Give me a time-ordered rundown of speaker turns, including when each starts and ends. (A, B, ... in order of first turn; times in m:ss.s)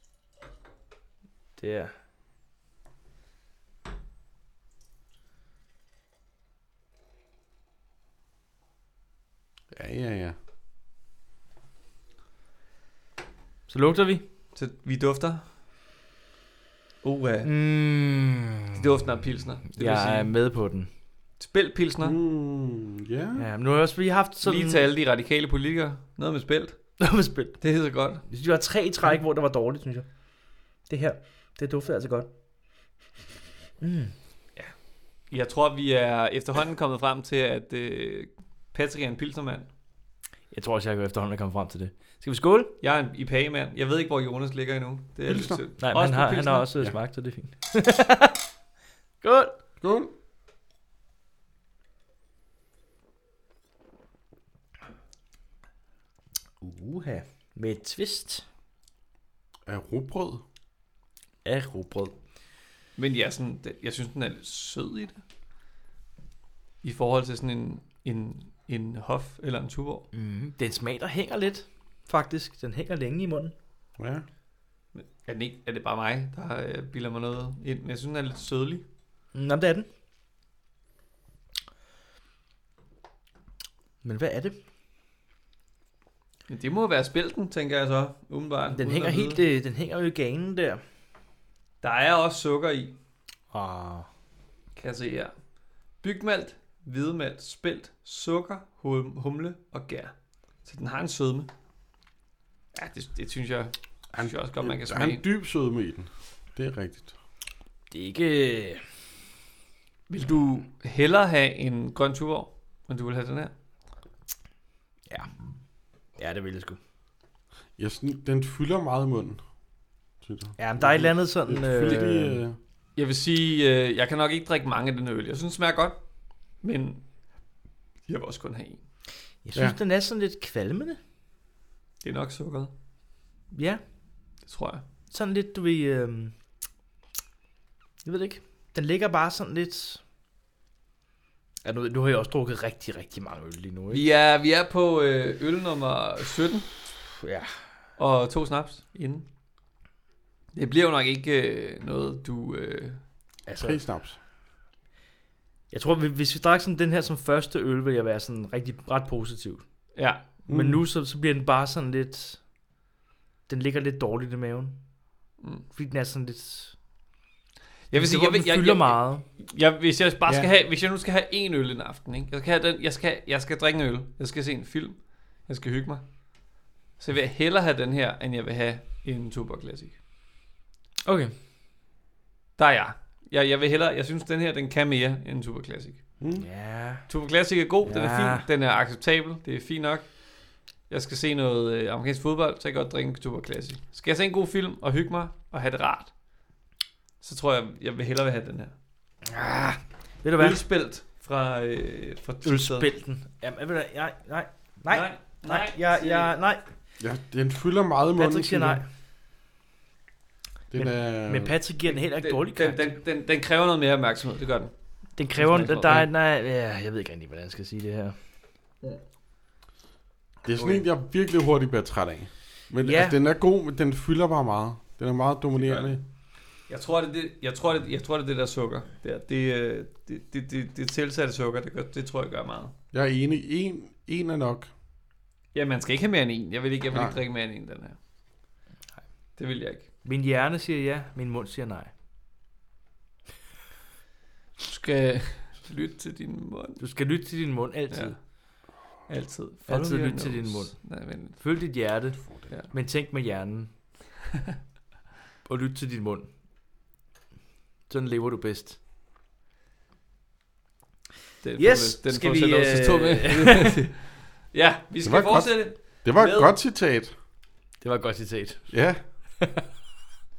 0:01.6-0:01.9 A
0:09.7-0:10.4 B
0:13.7-0:14.2 A
0:14.6-0:15.5 C
0:17.0-0:17.5 C
0:17.4-0:18.6 A
0:18.7-0:20.3 C
0:19.7-0:20.9 A
0:21.4-0:22.2 C
0:22.0-0:23.5 B
0:23.4-0:24.9 A
0:24.4-0:26.8 C
0:27.0-0:27.6 A
0:27.6-0:28.2 C
0:28.3-0:30.1 A
0:30.9-0:32.3 A
0:33.8-0:34.1 A
0:35.3-0:39.7 C
0:40.5-0:42.7 A
0:42.8-0:46.7 C
0:45.3-0:45.6 B
0:45.8-0:48.4 A
0:49.2-0:49.5 A
0:49.8-0:50.1 B
0:56.6-0:58.5 A
0:59.7-1:00.4 B
1:01.4-1:02.1 A
1:03.0-1:05.2 C
1:06.8-1:10.1 C
1:10.1-1:13.5 A
1:14.0-1:14.2 B
1:15.0-1:18.8 C
1:19.3-1:19.9 A
1:24.0-1:24.6 A
1:26.5-1:29.4 C
1:28.7-1:30.8 A
1:31.8-1:33.0 C
1:33.5-1:34.1 A
1:34.8-1:35.3 C
1:36.0-1:40.1 C
1:40.6-1:41.5 C
1:42.8-1:45.2 C
1:44.1-1:47.1 B
1:47.9-1:48.8 A
1:50.1-1:53.5 C
1:56.2-1:56.8 A
1:57.8-1:59.4 B
2:00.2-2:02.6 B
2:00.6-2:02.4 A
2:03.0-2:06.0 C
2:06.6-2:07.0 C
2:08.1-2:08.8 C
2:09.4-2:11.0 A
2:12.0-2:12.7 C
2:13.5-2:13.8 A
2:14.5-2:14.8 C
2:15.1-2:16.4 A
2:18.0-2:20.0 A
2:21.6-2:24.1 A
2:23.9-2:26.7 C
2:27.2-2:27.5 A
2:28.0-2:29.3 C
2:30.5-2:33.0 C
2:33.5-2:33.8 A
2:33.6-2:34.2 B
2:35.7-2:39.6 A
2:40.0-2:40.2 C
2:40.5-2:40.8 B
2:40.5-2:42.4 A
2:43.5-2:44.8 A
2:45.4-2:45.7 C
2:45.8-2:46.8 A
2:47.9-2:56.1 C
2:47.9-2:49.2 A
2:57.0-3:00.0 C
3:01.0-3:01.3 A
3:02.6-3:06.0 C
3:06.2-3:06.5 B
3:06.4-3:07.0 A
3:07.1-3:10.1 C
3:07.8-3:08.5 A
3:10.9-3:16.1 C
3:17.2-3:18.7 C
3:19.3-3:20.6 A
3:20.4-3:22.9 C
3:22.4-3:26.6 A
3:24.9-3:26.3 C
3:27.0-3:28.8 B
3:28.2-3:28.9 A
3:30.7-3:31.6 B
3:30.8-3:32.9 A
3:31.9-3:34.7 C
3:35.2-3:38.2 A
3:35.3-3:36.1 C
3:40.4-3:46.0 B
3:40.6-3:40.8 C
3:42.8-3:43.2 A
3:45.6-3:46.0 C
3:46.7-3:52.7 C
3:52.9-3:54.7 B
3:55.5-3:58.0 C
3:56.9-3:57.2 B
3:59.4-3:59.9 C
4:00.0-4:01.9 A
4:04.6-4:06.8 C
4:06.8-4:08.2 A
4:09.1-4:11.6 C
4:09.7-4:10.8 A
4:11.4-4:13.7 A
4:12.2-4:12.5 B
4:15.5-4:16.3 A
4:17.9-4:18.8 A
4:21.4-4:26.6 C
4:21.6-4:23.7 A
4:25.0-4:27.1 B
4:27.8-4:28.7 A
4:28.7-4:29.0 B